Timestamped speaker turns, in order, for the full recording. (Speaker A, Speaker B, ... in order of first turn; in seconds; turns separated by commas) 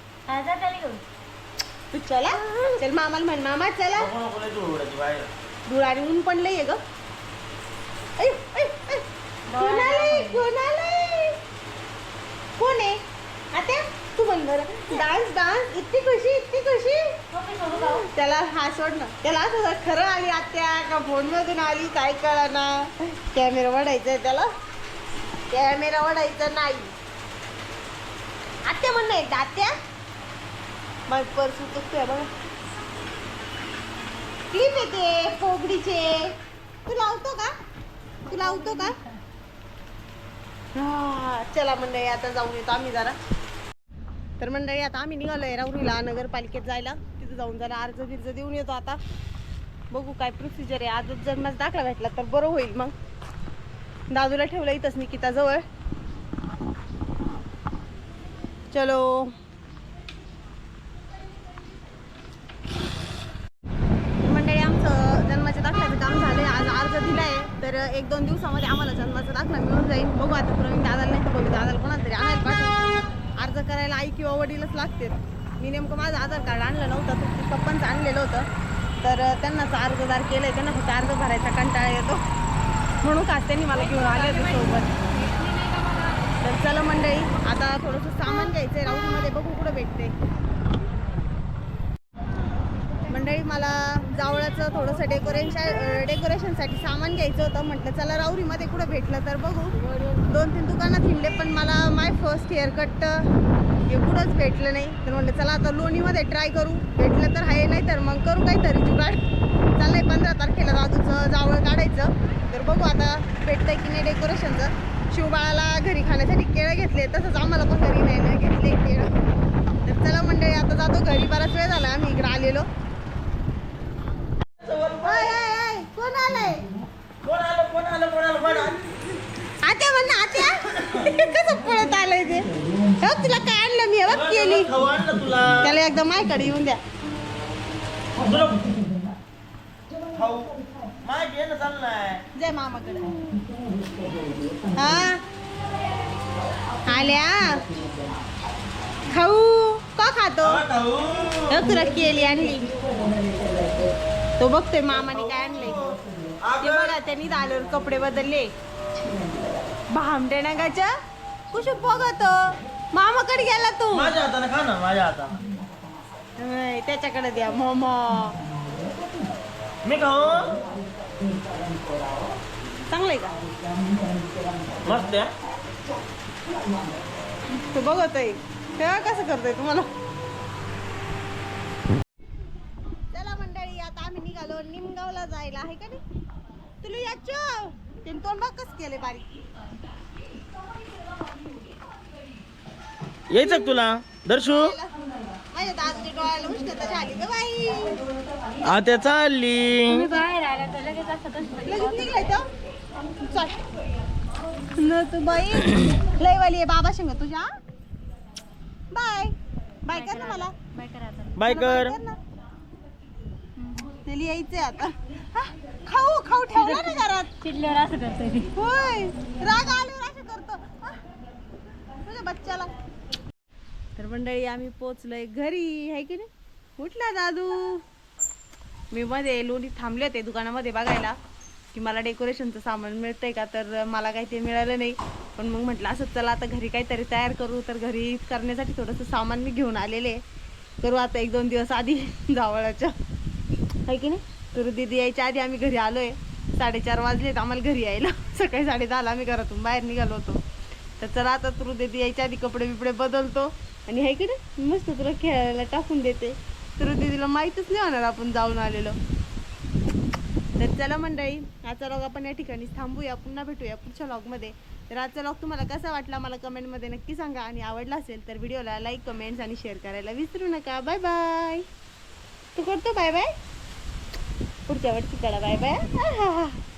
Speaker A: 0.3-1.0, Speaker B: 1.9-4.1, Speaker C: 3.9-5.3, Speaker B: 5.7-6.8, Speaker B: 8.2-9.0, Speaker A: 9.5-10.4, Speaker B: 9.6-11.4, Speaker B: 12.6-13.0, Speaker B: 13.5-17.1, Speaker A: 17.3-18.1, Speaker B: 17.7-24.5, Speaker B: 25.5-26.9, Speaker B: 28.6-29.7, Speaker B: 31.1-32.3, Speaker B: 34.5-36.3, Speaker B: 36.9-37.5, Speaker B: 38.2-38.9, Speaker A: 38.3-38.9, Speaker B: 40.7-43.1, Speaker B: 44.4-49.0, Speaker B: 49.9-52.9, Speaker B: 54.1-55.6, Speaker B: 58.7-59.3, Speaker B: 64.2-72.8, Speaker B: 73.4-78.5, Speaker B: 79.0-82.2, Speaker B: 83.0-85.0, Speaker A: 83.9-86.1, Speaker B: 86.4-90.1, Speaker B: 93.1-103.3, Speaker B: 103.9-109.2, Speaker B: 109.8-119.1, Speaker B: 119.8-122.7, Speaker C: 124.6-125.3, Speaker B: 125.0-126.7, Speaker C: 127.2-128.8, Speaker B: 129.6-134.7, Speaker C: 134.1-135.7, Speaker B: 135.6-136.8, Speaker C: 138.2-138.9, Speaker C: 140.1-142.2, Speaker B: 142.3-143.4, Speaker A: 143.8-144.6, Speaker B: 144.7-145.2, Speaker B: 146.8-147.7, Speaker B: 149.1-150.6, Speaker C: 150.4-151.7, Speaker B: 151.5-152.7, Speaker A: 153.1-153.9, Speaker B: 154.4-155.9, Speaker C: 155.4-156.9, Speaker B: 156.6-158.5, Speaker B: 159.9-160.9, Speaker B: 161.5-162.4, Speaker B: 162.9-164.2, Speaker C: 163.9-165.4, Speaker B: 166.4-168.4, Speaker C: 169.8-170.6, Speaker A: 171.2-171.9, Speaker B: 172.9-173.4, Speaker A: 173.9-174.7, Speaker C: 174.7-175.3, Speaker B: 177.6-179.9, Speaker B: 183.1-186.0, Speaker B: 186.8-189.4, Speaker C: 193.3-194.8, Speaker B: 193.3-193.8, Speaker B: 194.4-194.9, Speaker B: 195.5-198.0, Speaker C: 198.6-200.2, Speaker A: 199.9-202.2, Speaker B: 201.6-202.4, Speaker B: 203.2-203.6, Speaker B: 204.7-207.4, Speaker B: 208.9-209.3, Speaker B: 209.8-210.5, Speaker A: 209.9-211.4, Speaker C: 211.3-212.0, Speaker B: 211.4-212.2, Speaker A: 213.6-213.9, Speaker B: 214.0-217.3, Speaker A: 216.5-218.5, Speaker B: 218.5-221.0, Speaker B: 222.0-222.7, Speaker B: 224.0-227.8, Speaker B: 228.9-231.2, Speaker B: 231.7-240.2, Speaker B: 240.8-242.9, Speaker B: 243.9-250.4, Speaker B: 251.0-259.0, Speaker B: 260.6-271.6, Speaker B: 272.6-273.3, Speaker B: 274.7-276.6